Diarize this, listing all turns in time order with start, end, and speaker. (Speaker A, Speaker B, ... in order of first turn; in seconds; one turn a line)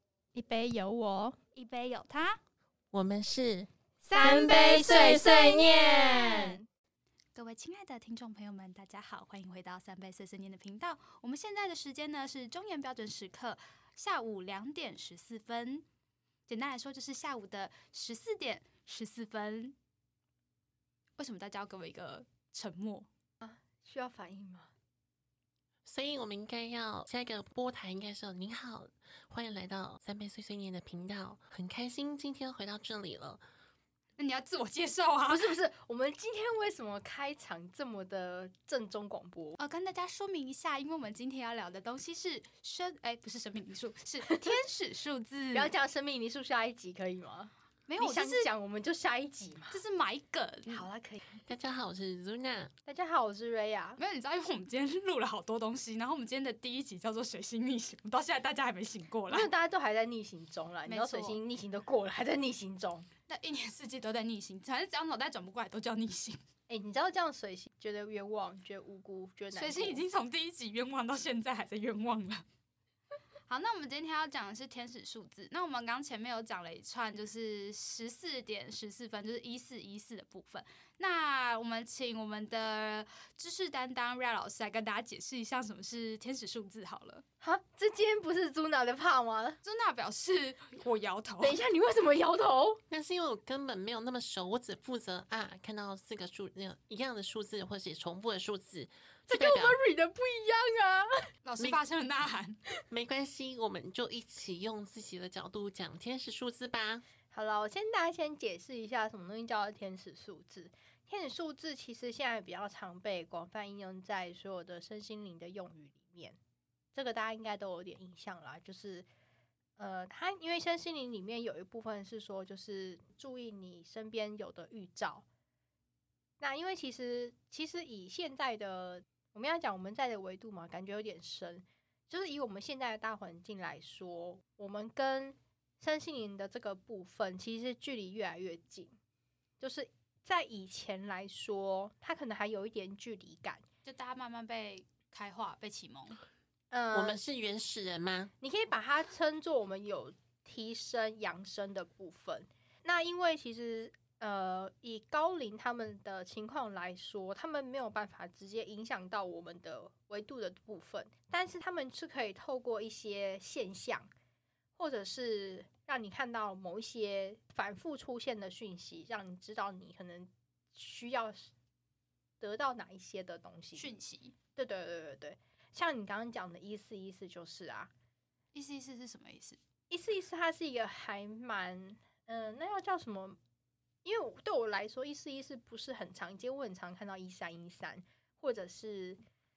Speaker A: 0.3-1.4
Speaker B: 1.5-2.4
Speaker C: 2.9-6.5
Speaker B: 4.0-6.6
Speaker A: 4.1-6.6
Speaker B: 7.3-15.8
Speaker B: 16.5-19.8
Speaker B: 21.2-23.1
Speaker A: 23.4-24.7
Speaker C: 25.9-33.4
Speaker B: 34.2-35.5
Speaker A: 35.3-39.6
Speaker B: 39.6-45.7
Speaker A: 44.3-44.6
Speaker A: 45.5-49.8
Speaker B: 47.9-48.5
Speaker B: 49.7-50.9
Speaker A: 50.7-51.2
Speaker C: 51.4-52.7
Speaker A: 52.9-54.0
Speaker B: 54.0-59.5
Speaker A: 59.3-63.1
Speaker B: 60.9-61.4
Speaker B: 63.3-66.4
Speaker A: 66.7-70.0
Speaker B: 69.5-72.4
Speaker B: 73.5-87.2
Speaker A: 87.4-89.6
Speaker B: 89.6-91.6
Speaker A: 91.4-92.8
Speaker C: 92.9-99.8
Speaker A: 99.3-101.3
Speaker B: 101.4-102.6
Speaker C: 102.9-107.0
Speaker A: 107.3-116.4
Speaker A: 116.9-119.1
Speaker A: 119.8-125.2
Speaker A: 126.4-138.9
Speaker A: 139.6-143.6
Speaker B: 143.8-146.2
Speaker A: 146.7-147.2
Speaker C: 146.9-148.3
Speaker A: 148.4-164.1
Speaker A: 164.8-171.5
Speaker A: 172.4-173.9
Speaker B: 173.8-174.3
Speaker A: 174.6-177.9
Speaker B: 178.5-179.6
Speaker A: 179.9-183.4
Speaker A: 184.0-189.2